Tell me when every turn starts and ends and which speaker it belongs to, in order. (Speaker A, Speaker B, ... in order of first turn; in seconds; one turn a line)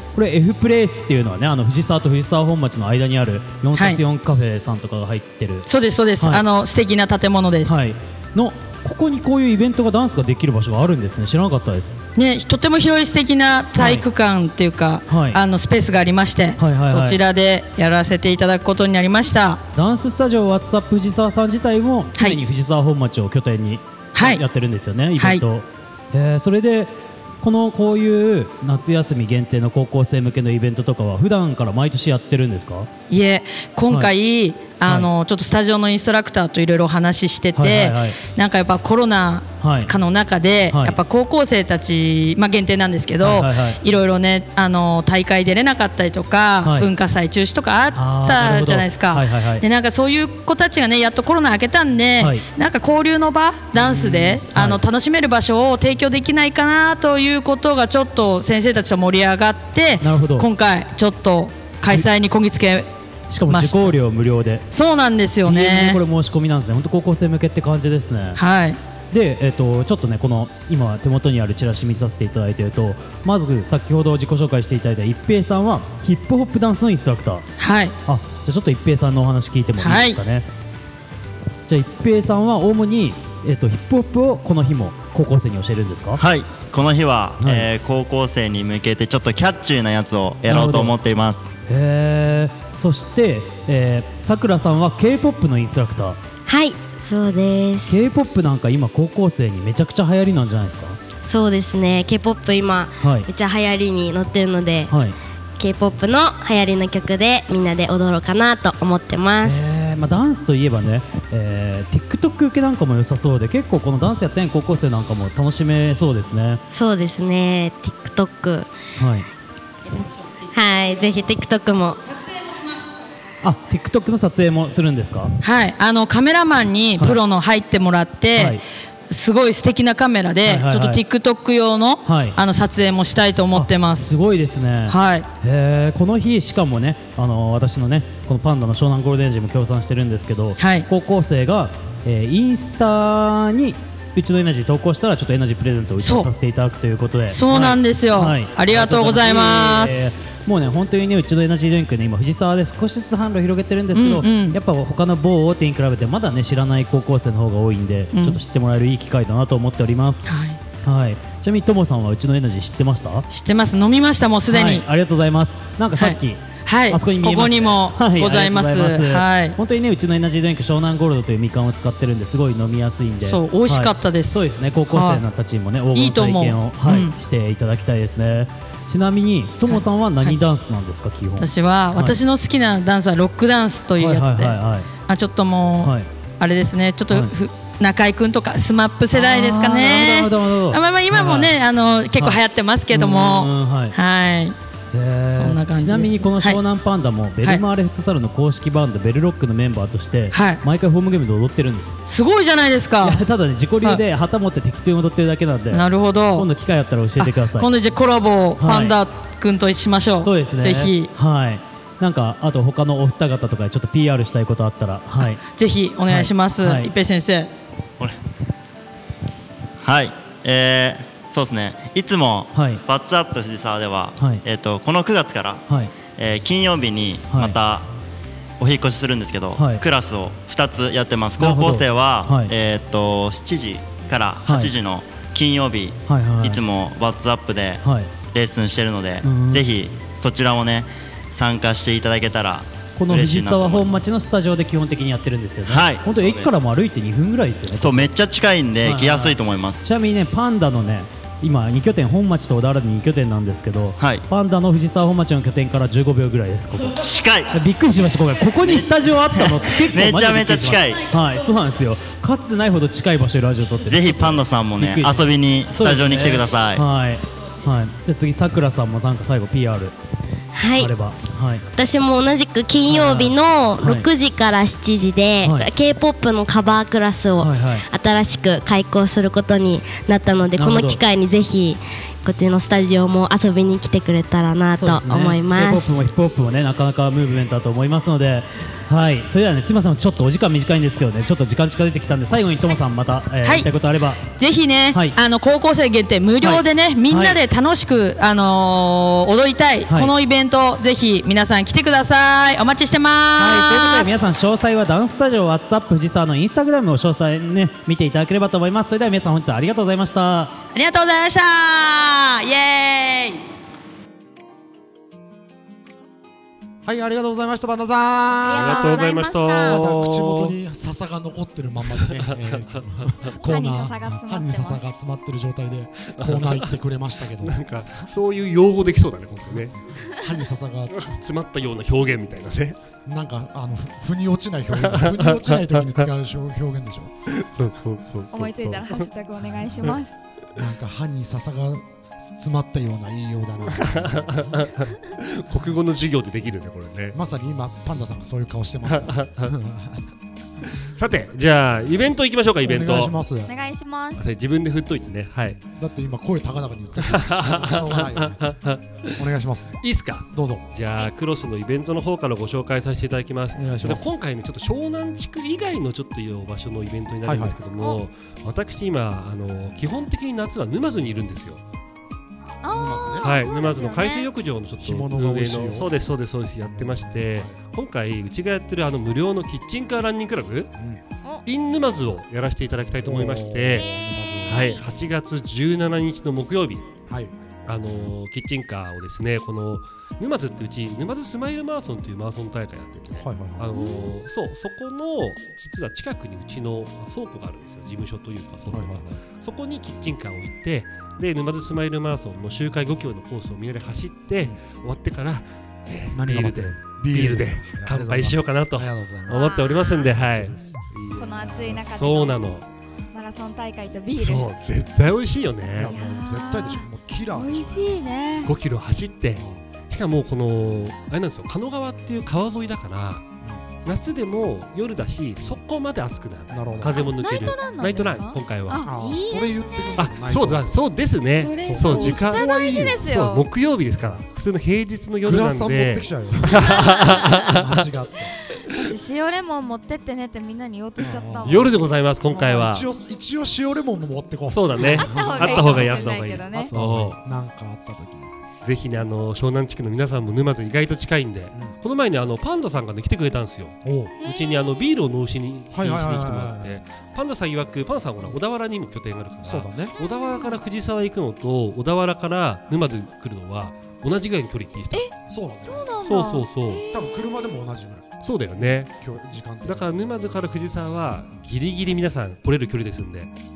Speaker A: 0.1-5.7
Speaker B: 3.7-4.0
Speaker B: 5.7-7.8
Speaker A: 7.7-12.0
Speaker B: 12.2-19.6
Speaker A: 13.8-14.1
Speaker A: 15.1-15.4
Speaker A: 16.6-17.2
Speaker A: 19.7-32.9
Speaker B: 24.1-24.4
Speaker B: 25.2-25.4
Speaker B: 33.1-62.9
Speaker A: 37.5-38.2
Speaker A: 39.6-39.9
Speaker A: 40.7-41.0
Speaker A: 43.2-43.8
Speaker A: 46.6-46.9
Speaker A: 47.9-49.6
Speaker A: 52.2-52.5
Speaker A: 53.7-54.8
Speaker A: 60.0-60.5
Speaker A: 63.3-64.7
Speaker B: 63.5-64.0
Speaker B: 64.7-66.0
Speaker A: 65.4-68.4
Speaker B: 68.4-68.8
Speaker A: 69.1-77.5
Speaker B: 77.6-78.0
Speaker A: 78.0-80.5
Speaker B: 79.8-80.2
Speaker A: 81.7-86.2
Speaker C: 86.2-91.5
Speaker A: 87.4-87.7
Speaker A: 90.5-91.0
Speaker A: 91.7-96.2
Speaker D: 96.5-98.0
Speaker A: 97.8-101.0
Speaker D: 101.2-104.9
Speaker A: 103.0-103.3
Speaker A: 104.9-105.2
Speaker D: 105.6-109.7
Speaker A: 109.4-116.6
Speaker D: 116.7-118.7
Speaker A: 119.0-119.3
Speaker D: 119.9-122.1
Speaker A: 123.4-125.3
Speaker B: 125.4-134.2
Speaker A: 128.4-128.6
Speaker A: 130.4-131.0
Speaker A: 132.1-132.4
Speaker A: 133.5-163.2
Speaker B: 134.9-135.3
Speaker B: 140.6-140.9
Speaker B: 146.0-146.3
Speaker B: 147.3-150.2
Speaker B: 153.9-154.6
Speaker B: 158.1-158.4
Speaker B: 160.2-160.6
Speaker B: 163.3-164.9
Speaker A: 164.5-182.2
Speaker B: 166.0-169.6
Speaker B: 173.2-175.2
Speaker B: 175.9-177.1
Speaker B: 179.7-180.4
Speaker B: 181.4-194.6
Speaker A: 184.0-184.9
Speaker A: 185.8-186.1
Speaker A: 189.1-191.6
Speaker A: 192.9-194.0
Speaker A: 194.9-202.0
Speaker B: 195.3-196.6
Speaker B: 200.3-200.6
Speaker B: 202.1-203.2
Speaker A: 203.0-207.7
Speaker B: 205.7-206.5
Speaker B: 207.2-211.1
Speaker A: 208.6-209.0
Speaker A: 210.2-215.4
Speaker B: 215.5-217.5
Speaker A: 216.1-216.9
Speaker C: 219.8-227.9
Speaker A: 222.5-222.8
Speaker A: 227.3-227.6
Speaker C: 228.6-244.1
Speaker A: 229.6-229.8
Speaker A: 231.4-232.5
Speaker A: 234.5-234.7
Speaker A: 236.1-236.6
Speaker A: 237.8-238.1
Speaker A: 239.2-239.7
Speaker A: 243.0-248.1
Speaker C: 245.7-246.5
Speaker C: 247.8-249.9
Speaker A: 248.8-269.9
Speaker C: 254.0-254.2
Speaker C: 256.9-257.6
Speaker C: 258.6-261.1
Speaker C: 263.9-266.9
Speaker D: 270.5-270.9
Speaker A: 270.8-271.6
Speaker D: 271.7-286.0
Speaker A: 272.9-274.1
Speaker A: 275.4-275.7
Speaker A: 277.4-277.9
Speaker A: 280.6-281.0
Speaker A: 284.7-294.3
Speaker B: 293.4-293.7
Speaker B: 294.2-304.1
Speaker A: 296.4-297.4
Speaker A: 303.4-310.6
Speaker B: 310.7-313.4
Speaker E: 316.8-327.6
Speaker F: 318.4-319.8
Speaker G: 318.5-320.6
Speaker G: 322.0-323.3
Speaker F: 323.4-324.9
Speaker G: 326.2-326.7
Speaker G: 327.4-329.9
Speaker E: 329.5-331.0
Speaker G: 330.9-332.8
Speaker E: 333.1-337.1
Speaker G: 334.7-336.1
Speaker G: 337.3-339.1
Speaker F: 338.3-340.2
Speaker E: 339.7-340.0
Speaker E: 340.6-344.4
Speaker G: 343.7-347.2
Speaker E: 347.1-350.1
Speaker G: 348.9-349.5
Speaker G: 350.8-353.2
Speaker E: 352.6-353.5
Speaker F: 353.5-354.3
Speaker G: 354.2-355.6
Speaker E: 355.6-358.4
Speaker G: 357.0-371.6
Speaker E: 359.2-360.8
Speaker E: 363.5-364.2
Speaker E: 367.2-367.6
Speaker F: 372.6-374.3
Speaker E: 372.7-373.5
Speaker G: 373.2-380.8
Speaker E: 374.8-375.9
Speaker E: 376.8-377.6
Speaker E: 380.8-381.0
Speaker G: 381.5-383.9
Speaker E: 383.0-384.8
Speaker G: 384.5-386.9
Speaker E: 387.1-387.3
Speaker G: 387.6-412.7
Speaker E: 393.1-393.7
Speaker F: 393.7-394.1
Speaker E: 398.7-399.1
Speaker E: 406.1-410.8
Speaker F: 409.3-410.1
Speaker F: 411.1-412.6
Speaker F: 413.1-414.5
Speaker G: 414.2-415.9
Speaker E: 415.8-417.9
Speaker F: 415.9-418.5
Speaker G: 418.4-423.2
Speaker E: 419.4-419.6
Speaker G: 423.9-428.9
Speaker E: 426.5-427.1
Speaker F: 426.9-430.1
Speaker E: 428.9-430.8
Speaker G: 430.0-437.9
Speaker F: 431.4-433.5
Speaker E: 431.6-433.0
Speaker E: 435.2-438.4
Speaker F: 436.6-437.5
Speaker F: 438.5-441.7
Speaker E: 441.0-441.7
Speaker G: 441.4-442.9
Speaker E: 442.3-448.4
Speaker G: 444.5-447.2
Speaker F: 444.8-446.7
Speaker G: 448.6-465.1
Speaker E: 451.5-451.8
Speaker E: 453.9-454.1
Speaker F: 454.2-454.8
Speaker E: 455.7-456.8
Speaker E: 459.4-459.9
Speaker F: 459.9-460.6
Speaker F: 464.9-467.2
Speaker E: 465.3-465.9
Speaker G: 466.0-466.9
Speaker E: 466.9-469.9
Speaker G: 468.2-469.0
Speaker G: 469.6-473.3